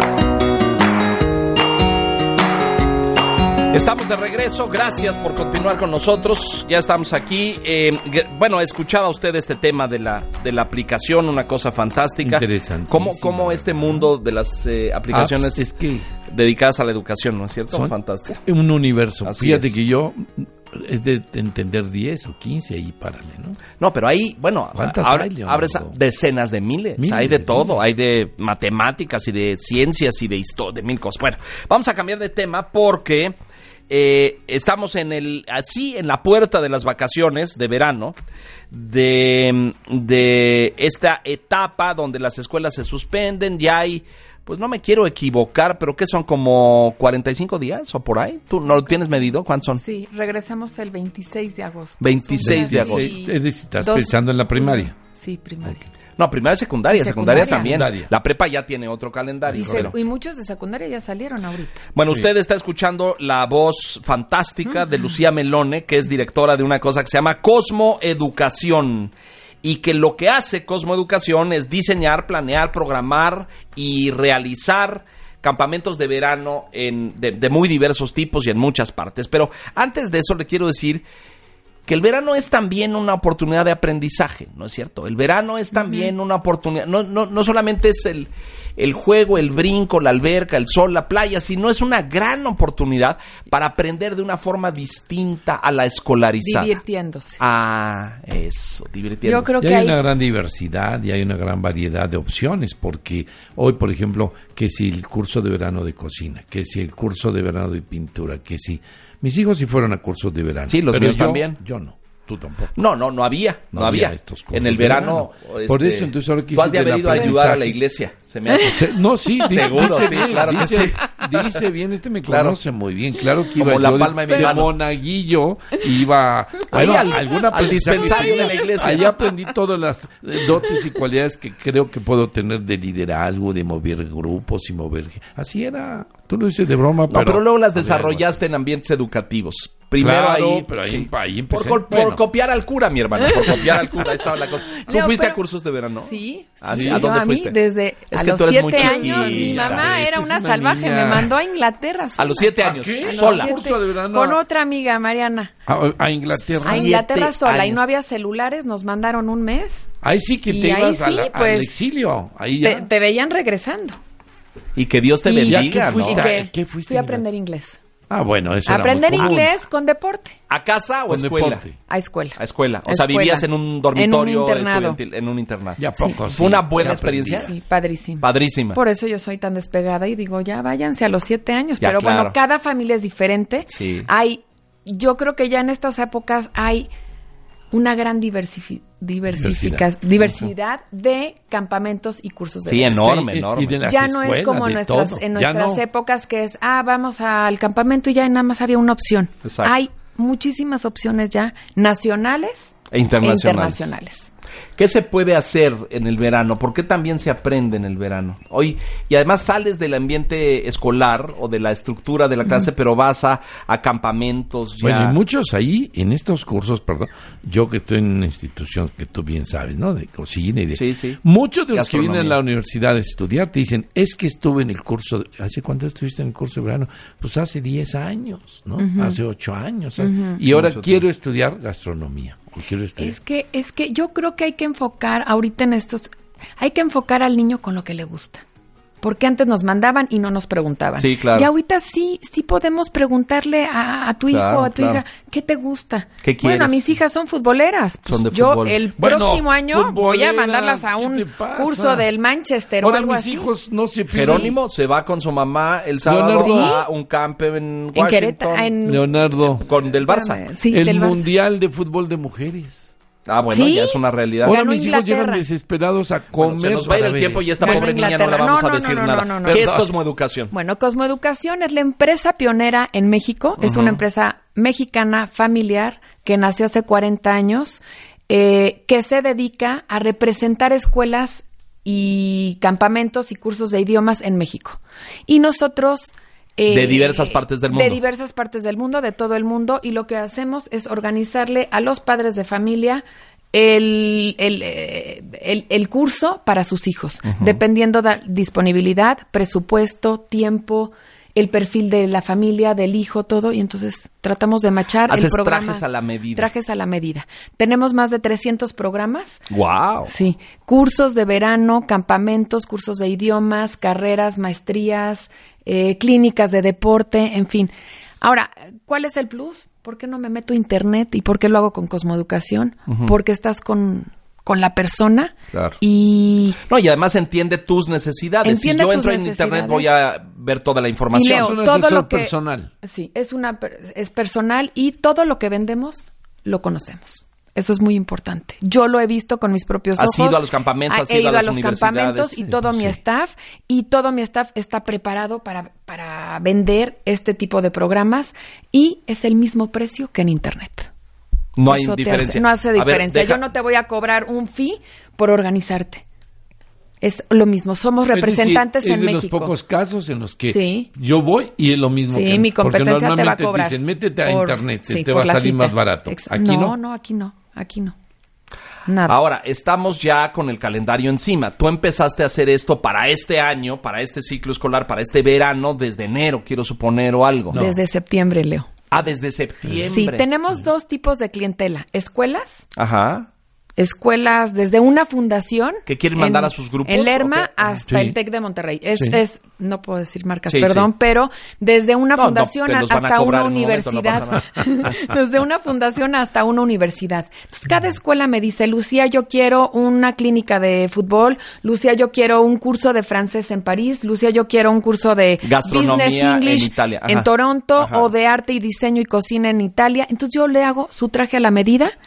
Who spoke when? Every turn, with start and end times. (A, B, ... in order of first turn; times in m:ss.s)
0:03.7-0:15.7 A
0:12.2-0:14.1 B
0:15.1-0:16.1 B
0:16.3-0:18.4 A
0:18.4-0:23.6 B
0:19.2-0:19.7 A
0:23.8-0:33.3 A
0:24.8-0:26.0 B
0:27.0-0:27.8 B
0:33.9-0:38.2 A
0:38.7-0:49.8 A
0:49.8-0:55.9 C
0:52.0-0:53.1 A
0:52.4-0:54.9 B
0:56.2-0:59.9 A
0:56.9-0:57.9 C
0:57.4-0:58.1 B
0:59.5-1:00.0 B
0:59.6-1:01.8 C
1:02.0-1:09.1 A
1:09.6-1:21.0 A
1:21.9-1:36.8 A
1:36.4-1:37.4 C
1:37.4-1:39.5 A
1:39.2-1:40.0 C
1:39.6-1:52.7 B
1:50.7-1:51.6 A
1:52.8-2:01.6 A
1:53.7-1:57.8 B
1:58.6-2:18.4 B
2:02.3-2:02.6 A
2:03.6-2:04.7 A
2:06.7-2:09.2 A
2:08.5-2:08.8 C
2:17.1-2:27.6 A
2:20.0-2:22.2 B
2:23.5-2:25.4 C
2:26.0-2:35.5 C
2:26.7-2:27.1 B
2:28.1-2:29.9 A
2:28.8-2:31.3 B
2:32.2-2:33.5 A
2:32.6-2:34.4 B
2:35.7-2:37.0 B
2:36.5-2:37.8 A
2:36.6-2:39.9 C
2:40.0-2:42.9 B
2:40.5-2:41.8 C
2:42.6-2:44.0 C
2:44.8-2:46.3 A
2:45.2-2:47.8 C
2:45.5-2:47.2 B
2:48.1-2:49.5 B
2:48.7-2:50.4 C
2:50.5-2:51.6 A
2:51.1-2:51.8 B
2:51.9-2:55.0 C
2:52.4-2:57.5 A
2:55.8-2:57.5 B
2:56.0-2:56.2 C
2:56.8-3:06.9 C
2:58.2-2:58.8 A
3:01.8-3:02.4 A
3:03.7-3:04.1 A
3:07.7-3:13.2 C
3:09.4-3:09.8 B
3:10.2-3:10.5 A
3:12.7-3:13.8 A
3:12.9-3:15.8 B
3:13.8-3:24.3 C
3:19.4-3:19.7 A
3:22.9-3:23.9 A
3:24.8-3:35.2 A
3:34.8-3:53.2 B
3:40.8-3:41.2 A
3:41.7-3:42.4 A
3:48.8-3:49.2 C
3:50.0-3:50.4 C
3:50.4-3:51.0 A
3:53.0-3:58.4 C
3:59.0-4:13.5 C
4:01.0-4:01.5 A
4:04.3-4:05.0 A
4:06.2-4:06.9 A
4:08.1-4:08.8 A
4:09.0-4:12.1 B
4:12.8-4:14.6 B
4:14.1-4:18.7 A
4:14.2-4:14.5 C
4:16.0-4:16.8 B
4:16.4-4:16.8 C
4:18.0-4:21.3 C
4:18.8-4:19.6 B
4:19.6-4:20.4 A
4:20.7-4:22.9 B
4:23.3-4:24.6 A
4:23.5-4:25.4 C
4:24.4-4:28.0 B
4:26.4-4:30.5 A
4:27.6-4:29.7 C
4:29.5-4:29.9 B
4:30.5-5:05.8 C
4:33.6-4:34.0 A
4:46.7-4:48.0 A
4:57.2-4:57.6 A
5:05.1-5:06.5 A
5:06.4-5:09.4 C
5:09.5-5:10.1 A
5:10.1-5:26.6 C
5:22.9-5:23.1 A
5:25.5-5:25.8 A
5:26.7-5:31.6 A
5:28.4-5:29.9 C
5:31.1-5:50.9 C
5:31.3-5:32.7 B
5:40.0-5:42.4 A
5:42.4-5:43.0 B
5:51.6-5:53.4 A
5:51.7-5:56.0 C
5:57.0-5:59.5 C
5:58.1-6:06.8 B
6:00.5-6:00.9 C
6:02.1-6:08.0 C
6:08.9-6:09.2 C
6:09.1-6:17.6 A
6:17.5-6:17.8 B
6:17.5-6:18.7 C
6:18.9-6:20.2 A
6:19.9-6:22.6 C
6:22.8-6:23.3 A
6:23.8-6:52.0 C
6:25.9-6:27.7 A
6:27.9-6:28.2 B
6:30.5-6:30.9 A
6:32.2-6:34.7 A
6:45.4-6:48.1 A